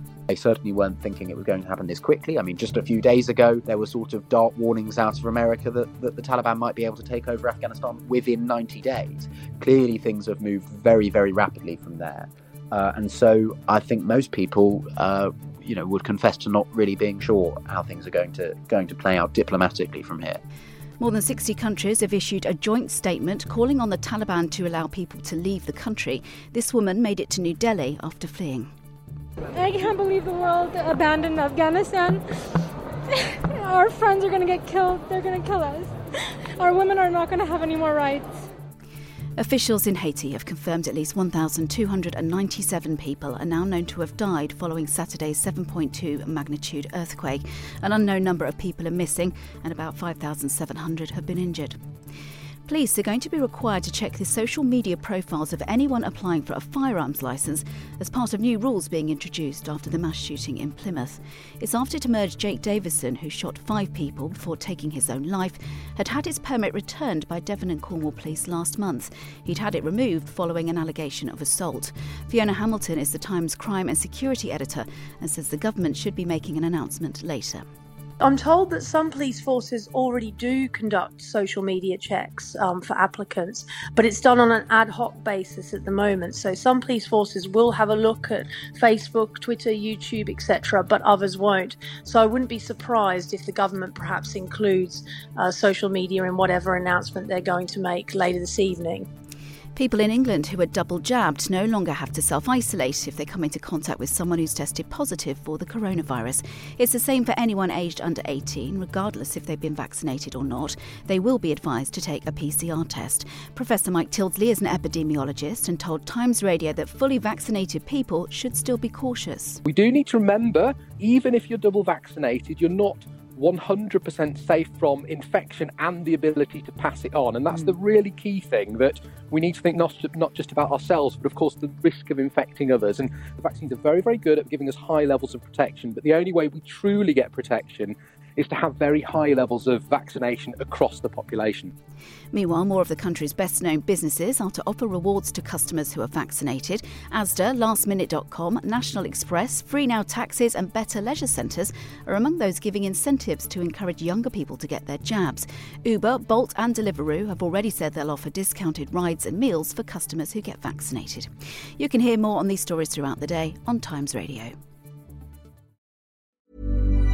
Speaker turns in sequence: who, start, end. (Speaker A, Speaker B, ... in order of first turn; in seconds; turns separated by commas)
Speaker A: 0.3-20.4, Speaker B: 21.0-28.7, Speaker C: 29.6-32.2, Speaker C: 33.5-35.9, Speaker C: 36.6-38.3, Speaker B: 39.4-51.8, Speaker B: 52.7-77.6, Speaker D: 78.2-99.1, Speaker B: 99.8-119.6, Speaker E: 119.7-141.7, Speaker B: 142.3-164.5